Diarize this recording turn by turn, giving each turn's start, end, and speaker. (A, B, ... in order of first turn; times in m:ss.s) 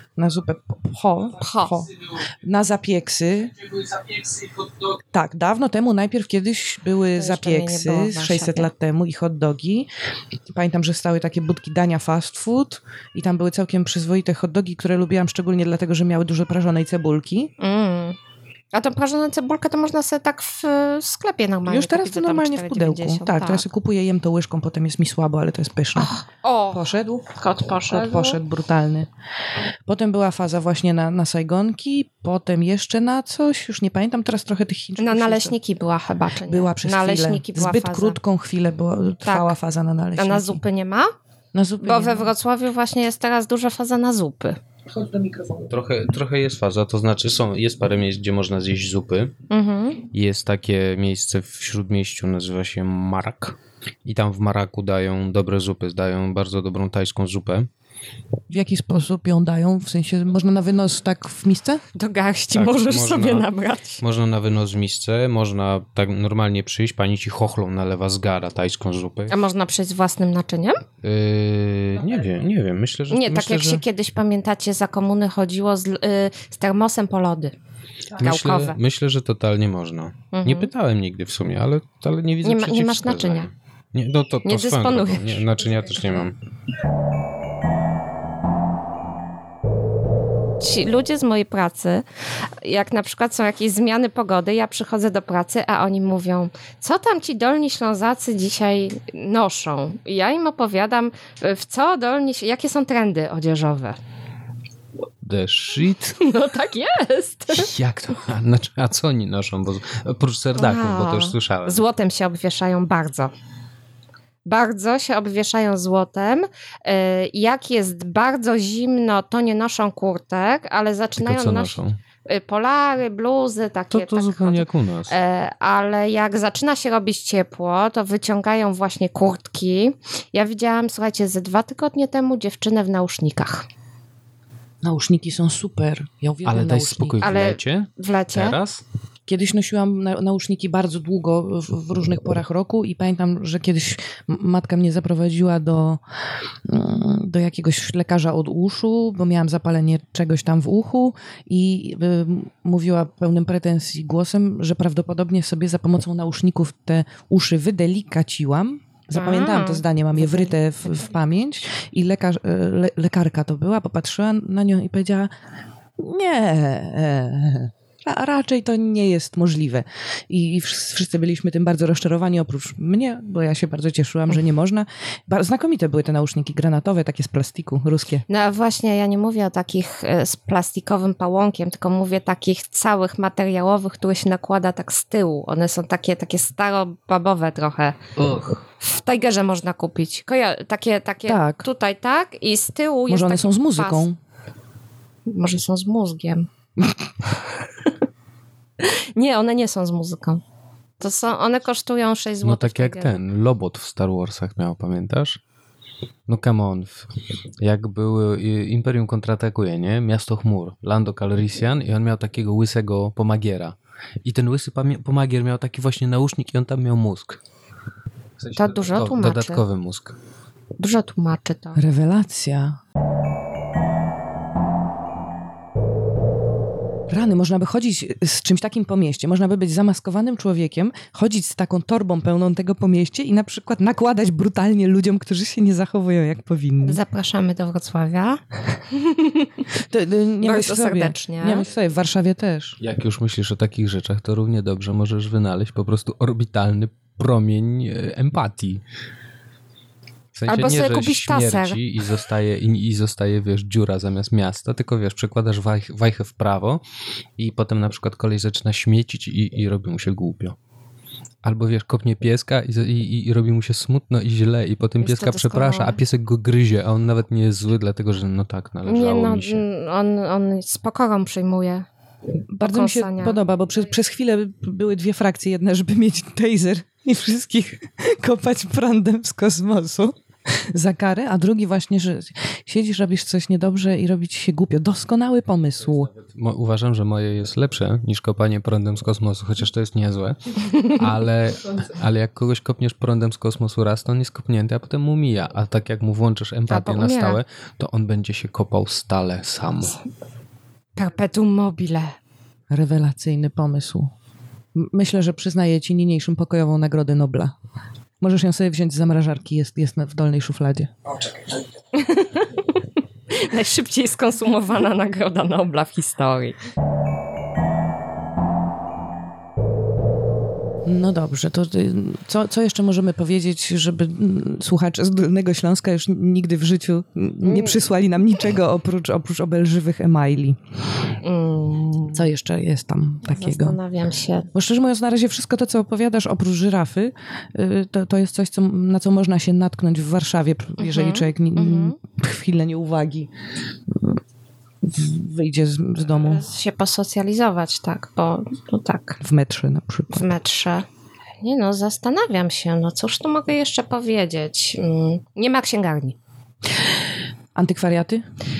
0:00.2-0:09.9 A
0:01.4-0:01.8 B
0:07.1-0:08.7 B
0:10.5-0:17.5 A
0:17.6-0:18.2 B
0:18.7-0:23.6 B
0:21.6-0:26.1 A
0:26.0-0:28.4 B
0:26.7-0:27.2 A
0:27.9-0:29.1 A
0:29.9-0:35.5 A
0:35.0-0:38.2 B
0:36.5-0:40.6 A
0:39.2-0:39.5 B
0:40.2-0:41.1 B
0:41.5-0:42.3 A
0:41.8-0:44.6 B
0:44.9-0:45.7 A
0:45.7-0:49.3 C
0:49.5-0:50.0 B
0:50.1-0:57.7 C
0:58.5-1:01.8 A
1:01.9-1:04.0 B
1:02.5-1:03.4 C
1:04.0-1:09.4 C
1:09.3-1:10.8 B
1:11.0-1:13.8 C
1:13.1-1:17.5 B
1:18.2-1:18.8 B
1:18.2-1:26.3 C
1:20.3-1:20.7 B
1:22.4-1:23.5 B
1:24.4-1:25.8 B
1:30.6-1:32.0 B
1:32.6-1:44.0 B
1:45.2-1:46.2 C
1:46.2-1:47.7 B
1:47.5-1:51.8 C
1:50.5-1:53.3 B
1:54.4-2:13.6 B
2:01.2-2:02.0 C
2:03.9-2:05.1 C
2:14.8-2:17.2 A
2:16.4-2:18.8 C
2:17.2-2:18.6 B
2:19.3-2:26.0 A
2:26.6-2:45.3 A
2:39.1-2:39.8 B
2:46.0-2:58.2 A
2:58.3-3:08.0 B
3:08.2-3:08.6 C
3:08.8-3:14.1 B
3:11.3-3:11.6 A
3:13.1-3:14.2 A
3:15.3-3:16.5 B
3:18.8-3:20.4 B
3:21.0-3:23.2 B
3:22.4-3:25.4 C
3:26.3-3:27.1 C
3:27.6-3:37.4 C
3:38.4-3:40.2 C
3:38.6-3:39.6 B
3:40.8-3:41.8 B
3:41.7-3:42.8 A
3:47.1-3:57.0 A
3:56.8-3:59.5 B
3:59.9-4:02.8 A
4:00.4-4:01.6 B
4:02.8-4:08.8 C
4:10.3-4:16.8 C
4:10.5-4:11.8 B
4:17.4-4:20.6 C
4:21.4-4:29.6 C
4:25.0-4:26.0 B
4:28.8-4:31.9 B
4:32.5-4:40.1 A
4:32.6-4:33.4 B
4:40.7-4:46.1 A
4:46.2-5:00.0 C
4:56.7-4:57.4 B
5:01.0-5:02.1 B
5:02.7-5:04.1 A
5:04.8-5:07.5 A
5:08.2-5:11.1 A
5:11.9-5:16.6 B
5:20.8-5:30.6 A
5:27.4-5:27.8 B
5:31.2-5:32.3 B
5:32.1-5:33.8 A
5:33.2-5:34.5 B
5:34.5-5:43.3 A
5:40.8-5:42.0 B
5:43.9-5:44.2 A
5:44.8-5:46.4 A
5:46.2-5:49.2 B
5:49.2-5:50.3 A
5:50.1-5:50.8 B
5:51.4-5:56.2 B
5:57.6-5:58.2 A